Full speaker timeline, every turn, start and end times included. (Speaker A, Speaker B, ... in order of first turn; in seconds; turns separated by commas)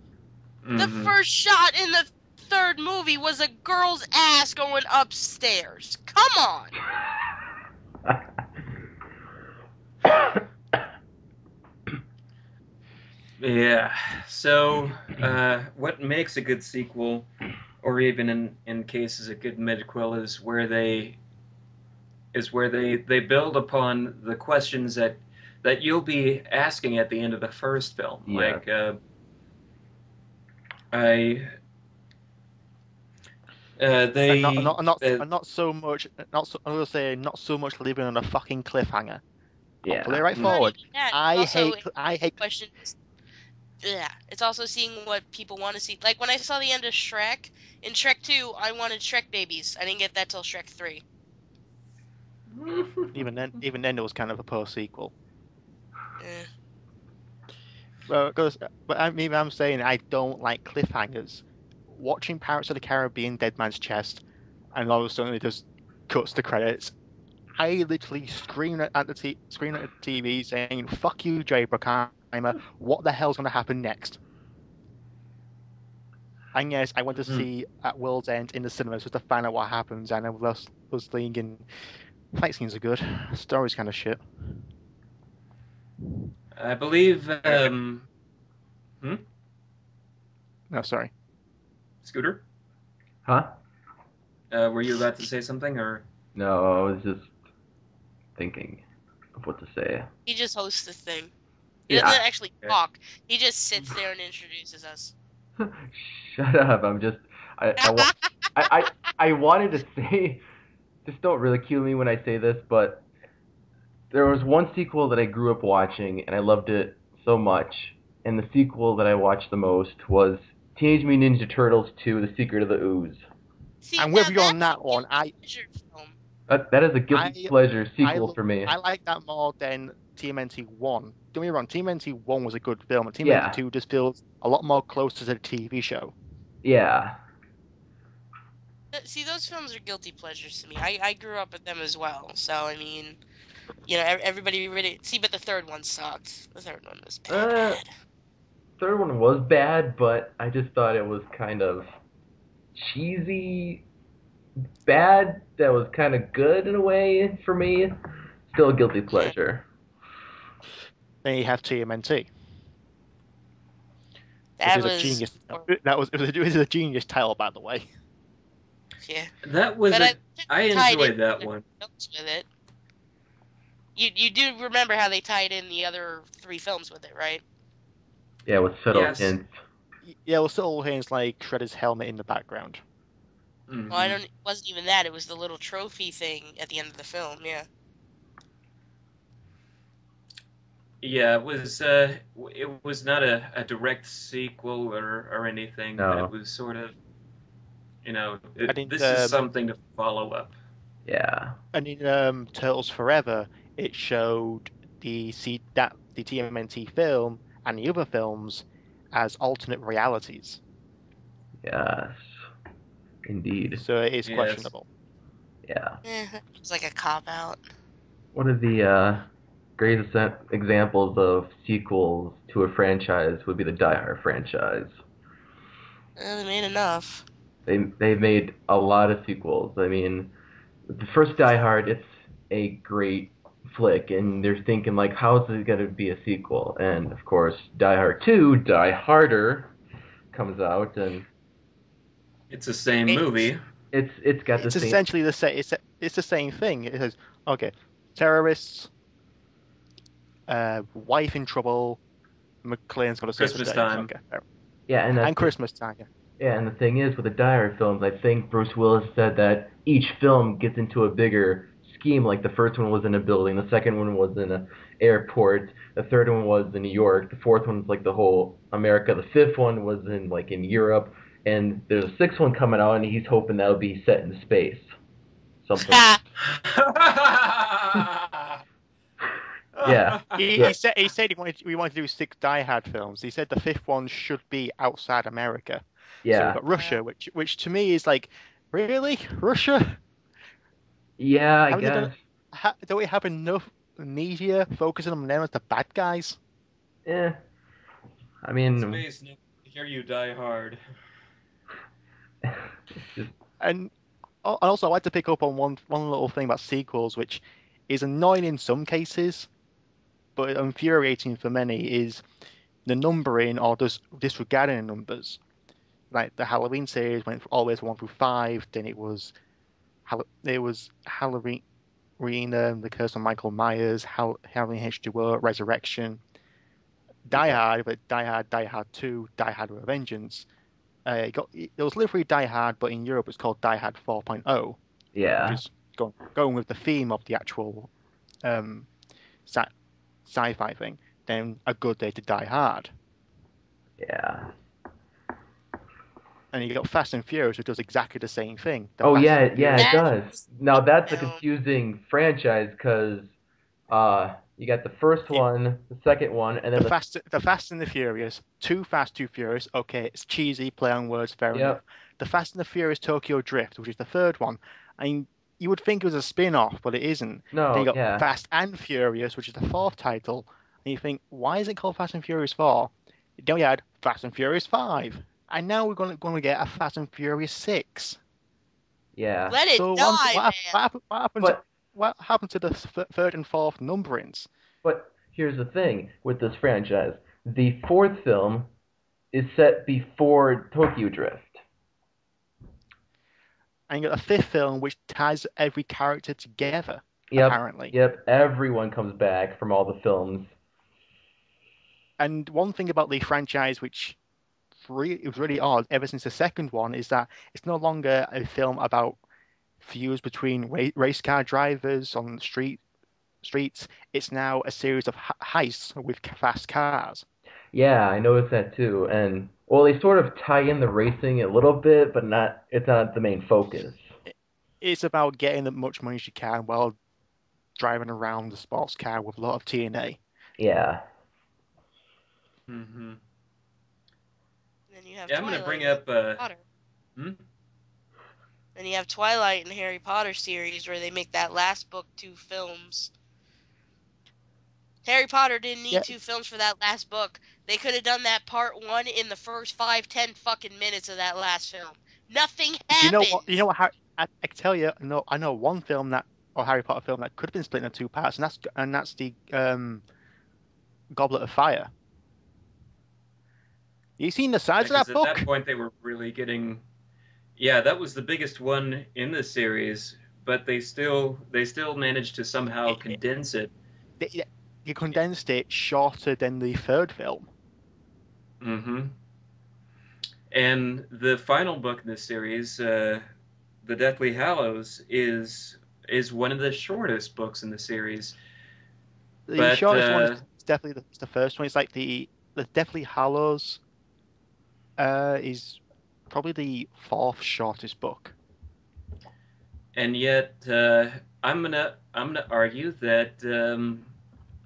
Speaker A: 0.6-1.1, Speaker B: 0.8-6.7, Speaker A: 13.4-17.3, Speaker A: 17.8-21.2, Speaker A: 22.3-29.0, Speaker C: 28.3-28.6, Speaker A: 30.9-31.5, Speaker A: 33.8-35.2, Speaker D: 34.3-39.2, Speaker C: 39.8-40.6, Speaker D: 39.9-42.4, Speaker B: 40.4-41.8, Speaker B: 42.4-43.0, Speaker B: 43.8-51.0, Speaker D: 53.1-55.1, Speaker B: 56.2-56.5, Speaker D: 58.1-64.2, Speaker D: 64.7-66.9, Speaker D: 67.6-74.2, Speaker D: 76.5-81.7, Speaker D: 82.3-84.2, Speaker A: 86.6-88.1, Speaker D: 90.7-91.1, Speaker A: 92.0-92.4, Speaker C: 93.2-93.5, Speaker A: 94.5-96.0, Speaker C: 96.3-97.3, Speaker C: 98.4-98.8, Speaker C: 99.4-100.1, Speaker B: 100.3-101.3, Speaker C: 101.9-102.2, Speaker B: 101.9-105.1, Speaker C: 105.6-110.4, Speaker C: 111.0-113.1, Speaker C: 114.1-123.2, Speaker B: 123.8-126.1, Speaker D: 124.0-125.3, Speaker C: 126.5-128.8, Speaker D: 127.1-136.2, Speaker C: 133.2-133.6, Speaker C: 136.6-137.2, Speaker B: 138.9-143.2, Speaker B: 143.9-147.8, Speaker C: 147.3-147.8, Speaker C: 148.8-152.0, Speaker C: 152.8-153.8, Speaker C: 154.8-158.0, Speaker C: 158.5-159.7, Speaker D: 161.2-162.3, Speaker B: 164.6-165.7, Speaker D: 164.6-167.9, Speaker B: 169.0-169.3, Speaker A: 169.4-171.7, Speaker B: 169.9-172.5, Speaker B: 174.0-177.4, Speaker C: 178.5-179.5, Speaker A: 178.9-179.4, Speaker D: 180.1-182.8, Speaker A: 183.7-184.2, Speaker B: 183.9-187.7, Speaker A: 191.0-196.9, Speaker C: 196.0-196.3, Speaker A: 198.0-200.6, Speaker D: 198.7-199.4, Speaker C: 201.1-201.6, Speaker D: 201.7-210.6, Speaker C: 211.6-212.4, Speaker C: 213.3-213.8, Speaker D: 213.8-214.9, Speaker A: 214.3-214.7, Speaker C: 215.7-216.0, Speaker B: 216.1-217.6, Speaker C: 218.3-225.0, Speaker B: 226.2-227.2, Speaker C: 227.7-230.3, Speaker C: 230.9-239.7, Speaker C: 240.3-241.3, Speaker A: 242.5-243.6, Speaker C: 243.9-245.0, Speaker D: 244.6-248.9, Speaker D: 250.5-252.0, Speaker D: 252.6-254.4, Speaker A: 253.4-254.1, Speaker C: 254.9-255.5, Speaker D: 255.2-256.1, Speaker C: 256.4-274.9, Speaker C: 275.6-276.1, Speaker B: 275.9-276.2, Speaker A: 276.4-278.6, Speaker A: 279.8-280.4, Speaker C: 279.8-280.8, Speaker D: 280.3-290.0, Speaker C: 286.2-286.6, Speaker B: 286.7-287.0, Speaker C: 291.2-292.2, Speaker D: 291.7-296.4, Speaker C: 297.1-297.4, Speaker C: 298.4-299.0, Speaker A: 298.7-300.8, Speaker C: 302.5-303.3, Speaker D: 303.6-303.9, Speaker D: 304.4-309.5, Speaker D: 310.4-312.2, Speaker D: 312.9-315.4, Speaker D: 316.1-319.4, Speaker D: 320.1-321.6, Speaker D: 322.2-326.2, Speaker D: 327.3-330.5, Speaker C: 327.3-327.6, Speaker D: 331.1-334.8, Speaker C: 335.1-335.6, Speaker D: 335.5-337.9, Speaker D: 338.4-338.9, Speaker D: 339.5-339.7, Speaker D: 340.3-342.9, Speaker C: 344.0-344.5, Speaker D: 346.5-350.0, Speaker C: 349.0-353.3, Speaker B: 349.8-350.1, Speaker B: 351.1-351.4, Speaker C: 353.9-357.0, Speaker D: 356.8-378.2, Speaker C: 361.5-361.8, Speaker C: 367.5-368.3, Speaker C: 379.2-379.6, Speaker B: 379.5-380.7, Speaker D: 379.8-384.5, Speaker C: 384.8-388.7, Speaker C: 389.3-391.6, Speaker D: 393.9-397.9, Speaker C: 397.3-400.5, Speaker D: 402.2-404.2, Speaker D: 404.9-409.2, Speaker D: 409.8-412.8, Speaker D: 413.4-417.2, Speaker C: 417.7-424.1, Speaker D: 424.3-427.0, Speaker D: 427.8-430.2, Speaker C: 430.6-431.0, Speaker A: 432.7-433.2, Speaker B: 434.9-436.6, Speaker A: 435.3-436.4, Speaker B: 438.8-443.1, Speaker B: 445.1-453.6, Speaker D: 452.9-460.0, Speaker D: 461.1-461.9, Speaker D: 464.2-465.5, Speaker A: 464.8-466.8, Speaker A: 467.6-473.7, Speaker D: 472.9-473.2, Speaker D: 474.2-477.5, Speaker A: 478.6-479.1, Speaker A: 480.5-483.2, Speaker A: 483.8-488.4, Speaker D: 489.5-493.8, Speaker A: 489.6-490.4, Speaker D: 495.0-498.4, Speaker A: 499.9-504.1